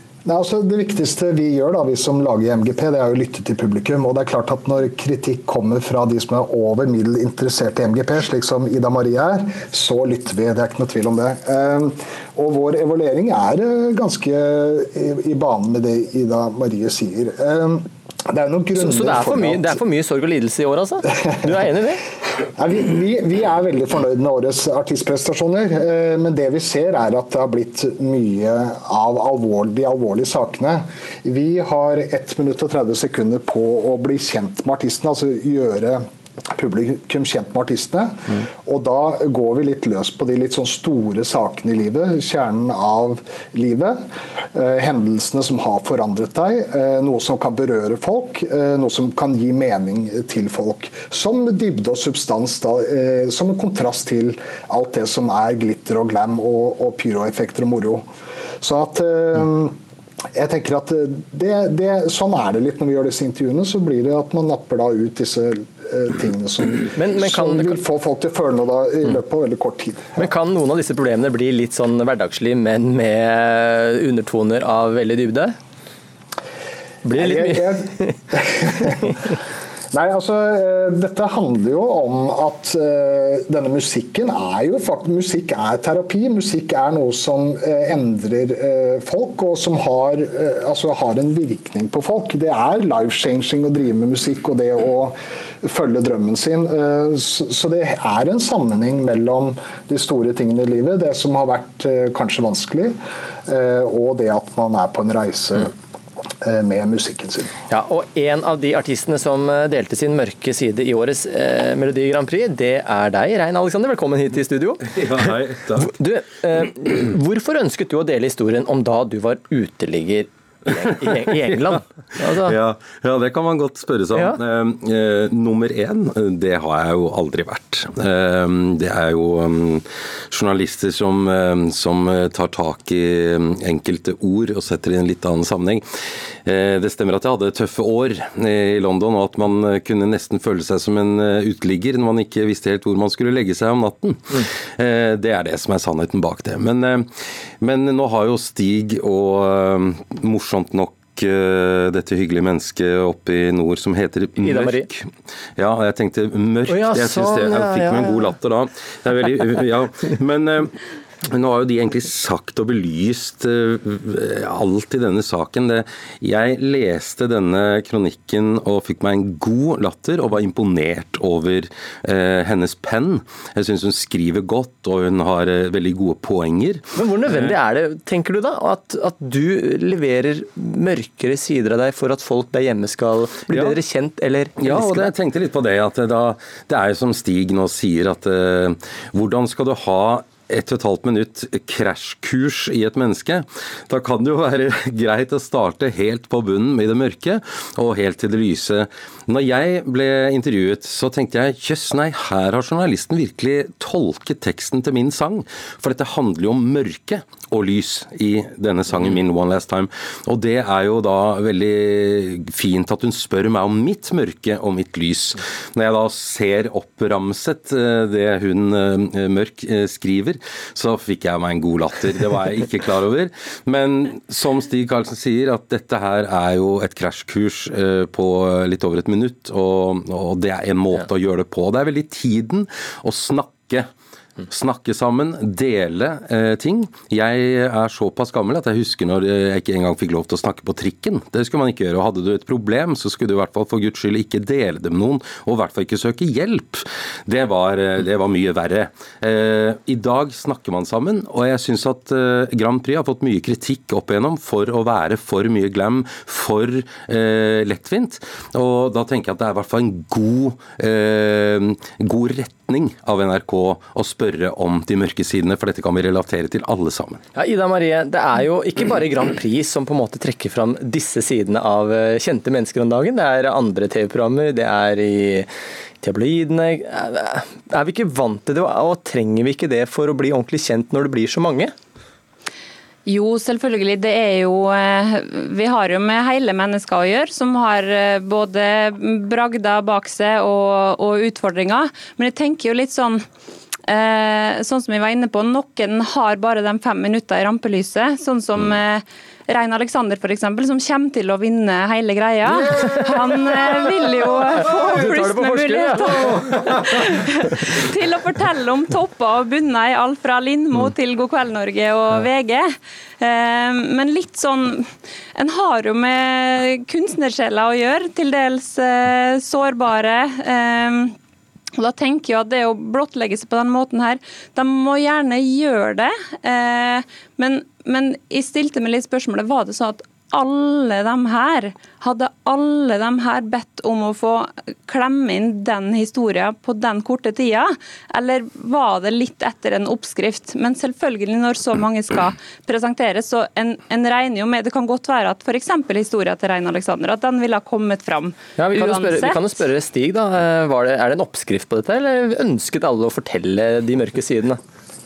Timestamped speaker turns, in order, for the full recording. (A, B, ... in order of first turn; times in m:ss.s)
0:00.2-0:19.8 A
0:18.7-0:22.0 B
0:22.6-0:44.0 A
0:44.5-0:58.0 A
0:58.6-0:59.7 A
1:00.3-1:10.2 A
1:06.9-1:07.8 B
1:10.2-1:15.5 B
1:17.0-1:18.2 B
1:17.1-1:19.2 A
1:19.9-1:43.0 A
1:43.5-1:45.7 A
1:46.4-1:47.5 A
1:47.7-1:55.2 B
1:55.1-1:55.8 C
1:55.8-2:02.6 B
2:02.5-2:09.8 C
2:04.1-2:04.4 B
2:10.3-2:15.8 C
2:16.4-2:24.2 C
2:24.8-2:27.0 C
2:27.6-2:34.9 C
2:34.4-2:34.9 B
2:35.6-2:40.7 C
2:36.7-2:38.3 B
2:41.4-2:56.8 C
2:57.0-3:05.1 B
3:04.6-3:53.9 C
3:54.5-4:27.2 C
4:27.3-4:35.5 B
4:36.0-4:41.7 B
4:43.1-4:53.2 D
4:53.9-5:06.1 D
5:02.8-5:03.2 B
5:04.4-5:06.8 B
5:08.0-5:12.6 D
5:13.2-5:14.7 D
5:15.4-5:20.9 D
5:21.8-5:49.4 D
5:48.6-5:54.6 B